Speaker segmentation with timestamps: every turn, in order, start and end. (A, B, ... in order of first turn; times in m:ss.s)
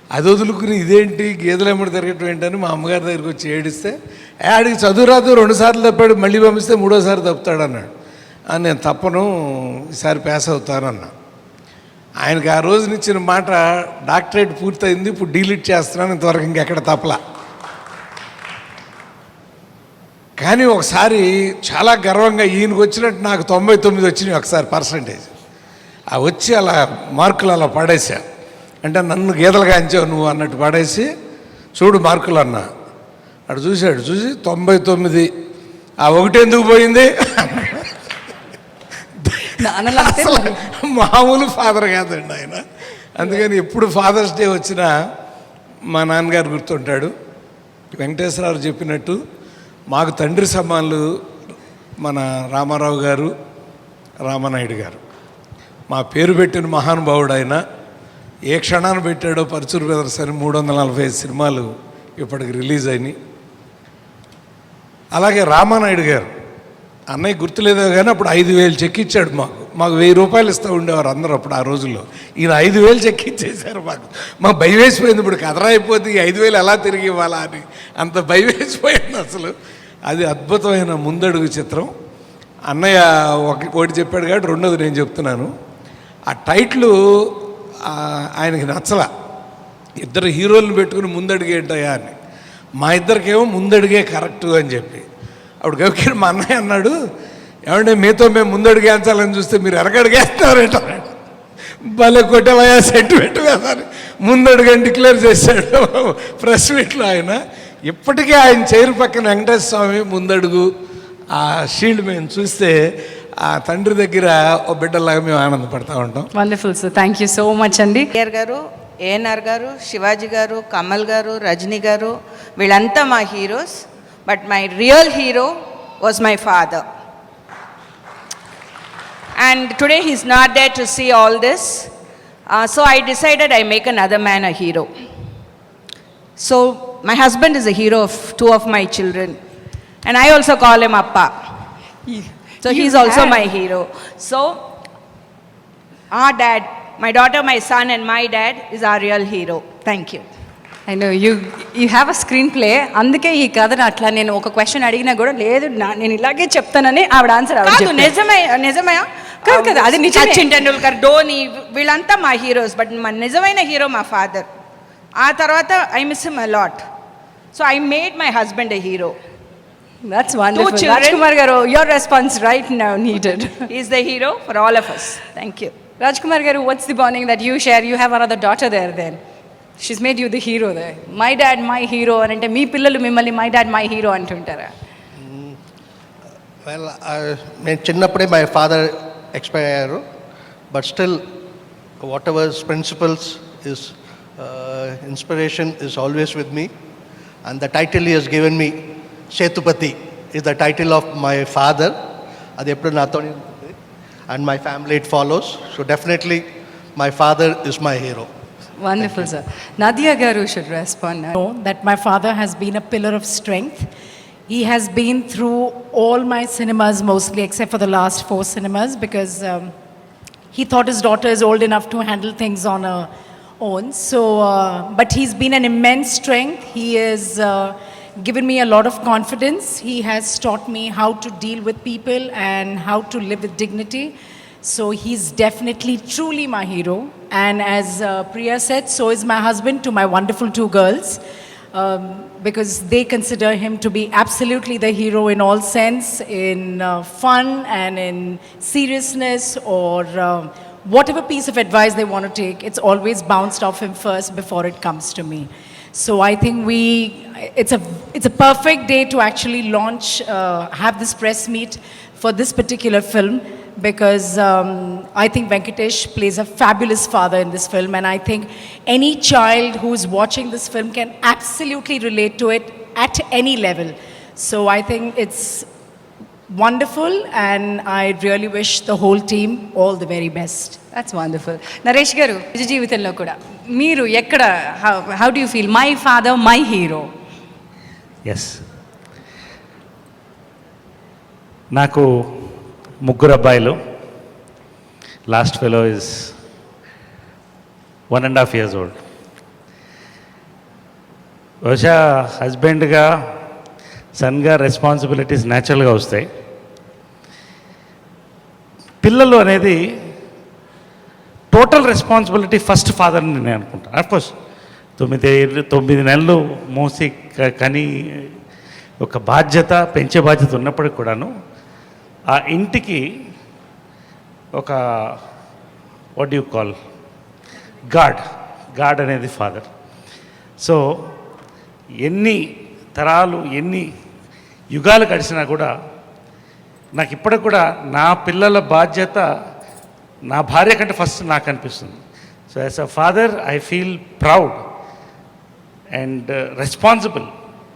0:00.1-0:04.0 A
0:04.5-0:07.9 A
0:08.5-0:11.1 A
0:12.2-0:17.2 A
0:20.4-0:25.3 A
0:26.1-0:28.2 A
0:28.8-0:31.1 A
0:31.8-0:32.7 A
0:33.5-0:35.3 A
0:36.0-0:37.9 A
0:39.2-0:42.6 A
0:39.5-0:40.6 B
0:43.2-0:44.9 A
0:45.9-0:47.1 A
0:48.0-0:49.2 A
0:49.9-0:51.1 A
0:52.0-0:53.3 A
0:54.3-0:55.0 A
0:55.9-0:57.6 A
0:58.5-1:03.2 A
1:05.1-1:06.3 A
1:07.1-1:19.5 A
1:20.1-1:21.9 A
1:22.7-1:25.5 A
1:26.3-1:29.1 A
1:30.0-1:32.2 A
1:32.8-1:35.0 A
1:35.6-1:36.9 A
1:37.7-1:41.1 A
1:42.0-1:50.7 A
1:51.3-1:52.8 A
1:53.4-1:56.3 A
1:56.3-1:58.1 B
1:58.2-2:06.8 C
2:09.4-2:11.9 C
2:12.5-2:14.9 C
2:16.4-2:19.4 C
2:20.0-2:21.4 C
2:22.1-2:23.4 B
2:22.6-2:24.6 C
2:26.1-2:30.3 C
2:30.9-2:38.1 B
2:37.6-2:44.5 C
2:39.4-2:40.5 B
2:45.2-2:46.8 C
2:47.5-2:49.2 C
2:50.0-2:53.6 B
2:50.5-2:51.2 C
2:53.7-2:55.8 C
2:56.0-2:59.2 B
2:59.8-3:04.7 B
3:05.2-3:05.6 D
3:06.6-3:10.0 D
3:10.7-3:11.2 D
3:12.0-3:16.7 D
3:17.4-3:22.0 D
3:22.6-3:23.8 D
3:24.3-3:28.3 D
3:28.8-3:31.4 B
3:31.4-3:33.9 E
3:34.5-3:39.7 E
3:40.5-4:01.2 E
4:01.7-4:35.7 E
4:36.5-4:40.8 E
4:40.9-4:47.1 B
4:48.2-4:48.6 F
4:51.7-4:52.5 F
4:53.0-4:53.8 F
4:55.3-4:56.4 F
4:58.1-4:59.0 F
5:01.6-5:03.3 F
5:04.2-5:06.3 F
5:09.0-5:10.1 F
5:11.5-5:14.3 F
5:15.0-5:18.4 F
5:19.0-5:21.3 F
5:22.3-5:23.0 F
5:24.5-5:25.2 F
5:26.2-5:26.8 F
5:27.9-5:29.7 F
5:30.6-5:31.1 F
5:32.0-5:33.9 F
5:34.7-5:35.7 F
5:36.9-5:39.3 F
5:40.3-5:44.6 F
5:45.9-5:47.3 F